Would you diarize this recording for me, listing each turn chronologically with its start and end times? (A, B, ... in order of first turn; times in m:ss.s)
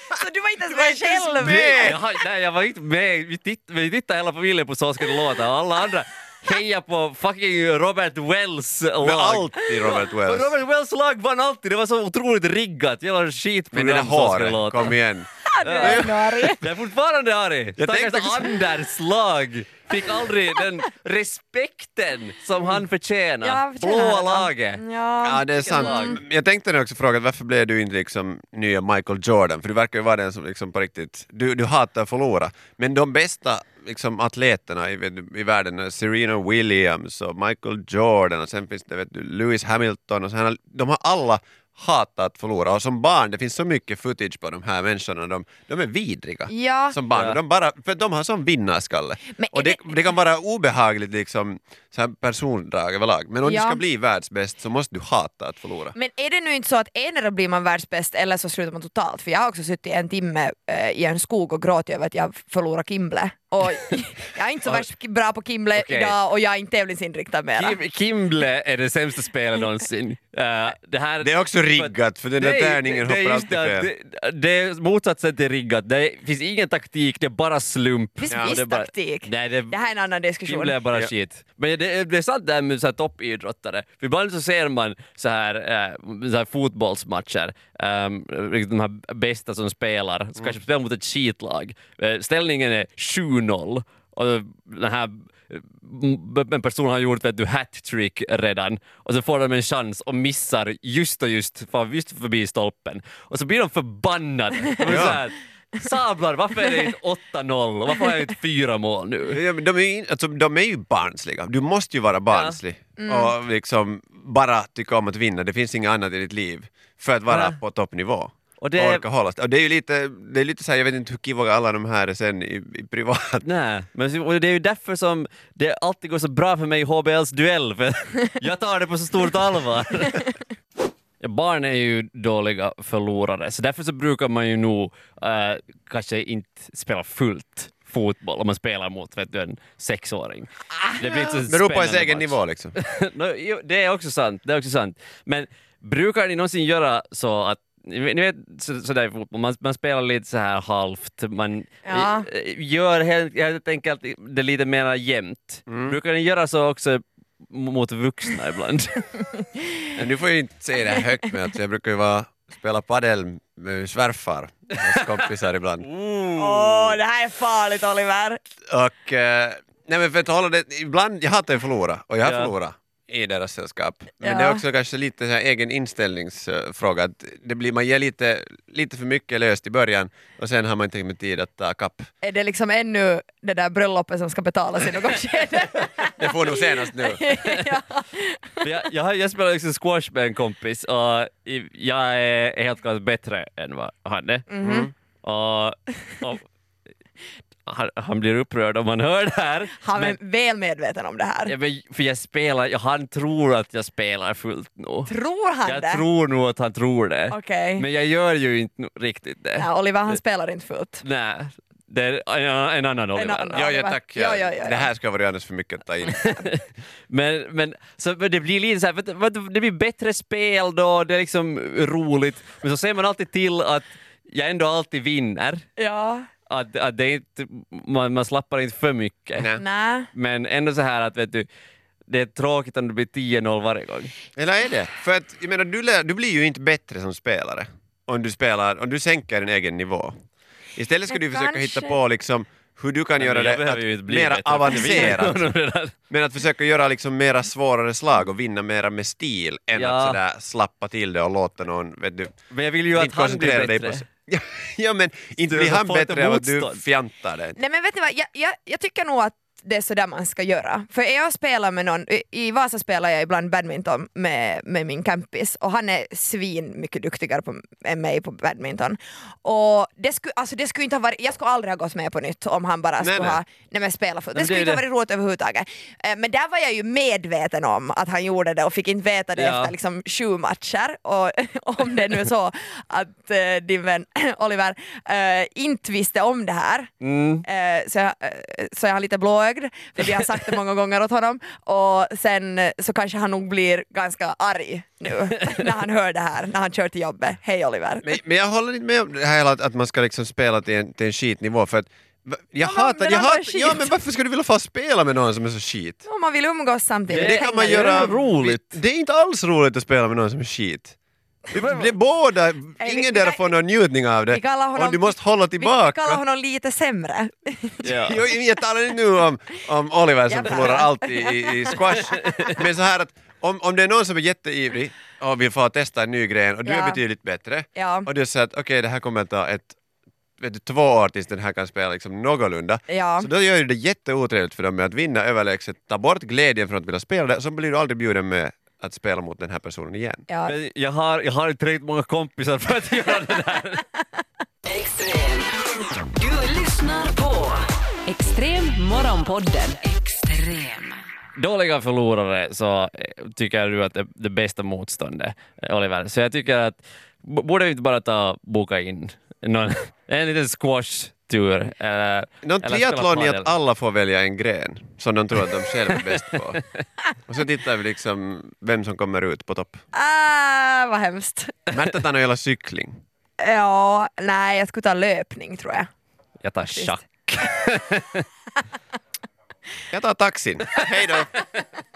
0:00.1-0:02.0 A
0:00.7-0:02.0 B
0:01.4-0:15.0 C
0:09.0-0:10.5 B
0:13.7-0:16.2 B
0:15.4-0:16.6 A
0:15.6-0:24.8 C
0:17.8-0:18.5 B
0:23.4-0:26.2 A
0:25.2-0:55.9 B
0:25.6-0:26.2 C
0:46.5-0:47.0 A
0:49.3-0:50.0 A
0:53.4-0:53.8 A
0:55.9-1:07.8 A
1:05.8-1:06.1 C
1:07.6-1:19.8 C
1:11.2-1:13.9 B
1:18.2-1:20.8 A
1:18.3-1:18.6 B
1:20.4-1:49.4 C
1:44.8-1:45.2 B
1:49.3-2:03.4 B
1:52.3-1:52.6 C
1:53.0-1:53.4 A
1:57.3-1:57.6 C
1:58.6-1:59.0 C
2:03.4-2:10.3 C
2:11.2-2:39.1 C
2:21.0-2:22.8 B
2:31.8-2:32.3 A
2:35.7-2:36.0 B
2:40.0-2:45.9 B
2:45.8-2:46.9 C
2:46.4-2:48.4 A
2:48.7-3:02.1 B
2:52.2-2:52.5 C
2:54.2-2:54.6 A
3:02.2-3:08.6 A
3:06.2-3:07.2 B
3:08.6-3:14.5 C
3:14.5-3:14.9 A
3:14.6-3:14.9 B
3:15.2-3:16.5 C
3:17.7-3:20.2 C
3:19.8-3:21.5 A
3:21.5-3:25.1 C
3:25.1-3:26.0 A
3:25.6-3:30.2 C
3:27.3-3:27.8 A
3:29.6-3:31.0 A
3:31.0-3:33.7 C
3:33.1-3:34.9 A
3:33.5-3:36.5 B
3:36.1-3:45.6 C
3:45.8-3:46.3 A
3:46.5-3:49.5 C
3:49.6-3:50.1 A
3:50.1-3:51.5 C
3:52.1-3:54.1 C
3:54.4-4:00.1 B
4:00.8-4:05.5 B
4:01.1-4:02.0 A
4:03.2-4:05.9 C
4:06.1-4:12.3 B
4:09.8-4:10.2 C
4:12.5-4:14.0 C
4:12.9-4:17.6 B
4:15.5-4:16.8 C
4:17.6-4:46.9 A
4:33.0-4:33.4 B
4:34.4-4:34.8 C
4:39.4-4:39.7 C
4:47.0-4:47.4 C
4:47.4-4:58.2 A
4:58.0-5:06.0 B
5:02.6-5:03.9 A
5:06.0-5:08.2 A
5:07.1-5:08.8 C
5:07.1-5:11.0 B
5:11.5-5:11.9 C
5:11.5-5:16.2 B
5:12.8-5:13.4 A
5:14.3-5:18.1 A
5:17.8-5:18.2 C
5:17.9-5:29.8 B
5:20.3-5:22.1 A
5:22.1-5:22.6 C
5:26.6-5:27.0 A
5:27.7-5:28.1 A
5:30.4-5:40.2 B
5:32.9-5:33.3 A
5:40.3-5:40.6 A
5:40.5-5:43.8 C
5:44.7-5:51.0 D
5:51.4-6:03.5 C
6:02.4-6:06.6 B
6:05.9-6:06.6 C
6:07.3-6:09.8 B
6:09.9-6:11.6 A
6:11.7-6:13.0 B
6:13.4-6:15.9 A
6:16.4-6:18.2 C
6:19.9-6:21.3 B
6:20.8-6:21.4 C